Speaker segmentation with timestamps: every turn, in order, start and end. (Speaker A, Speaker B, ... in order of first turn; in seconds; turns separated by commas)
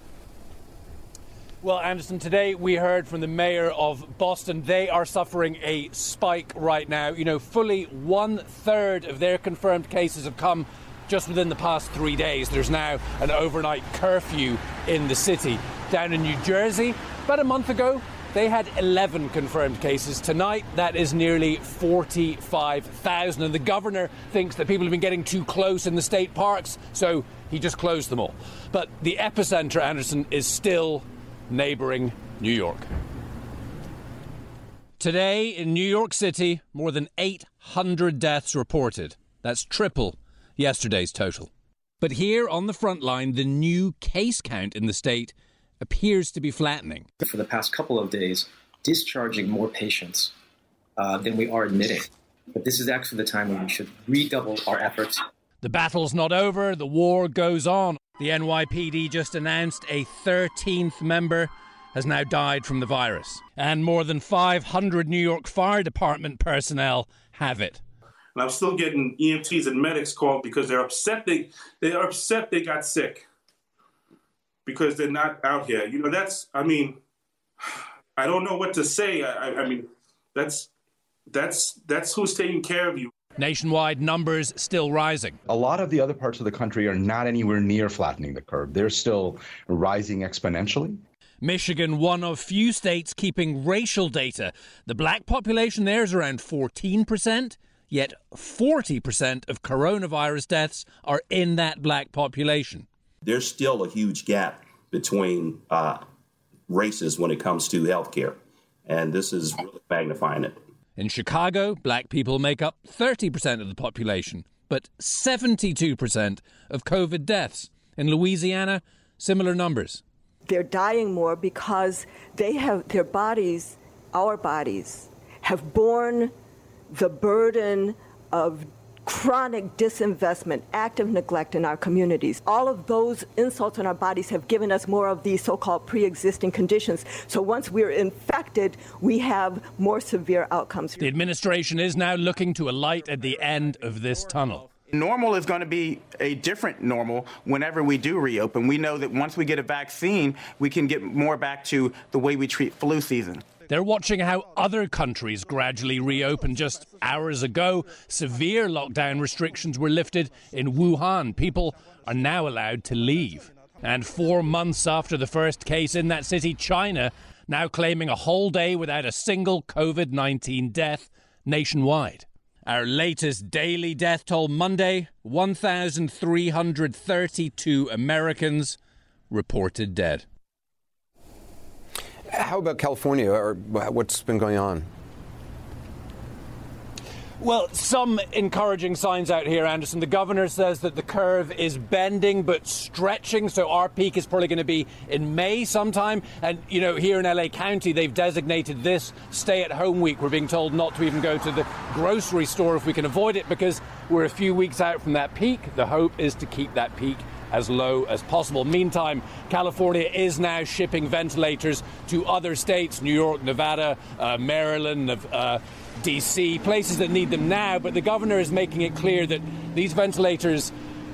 Speaker A: 1.6-32.9, Speaker A: 35.0-41.5, Speaker A: 42.0-47.1, Speaker B: 47.2-50.3, Speaker B: 51.0-55.2, Speaker A: 55.6-67.8, Speaker C: 68.3-73.2, Speaker C: 74.7-77.0, Speaker C: 78.2-80.7, Speaker C: 81.3-83.1, Speaker A: 83.4-85.4, Speaker D: 85.5-91.0, Speaker A: 91.4-102.8, Speaker E: 103.2-106.0, Speaker E: 106.7-110.6, Speaker A: 111.0-120.0, Speaker F: 120.5-126.3, Speaker F: 126.9-141.1, Speaker A: 141.0-144.6, Speaker G: 144.9-153.5, Speaker A: 153.7-178.8, Speaker A: 179.3-180.2, Speaker H: 182.3-184.9, Speaker A: 187.4-220.7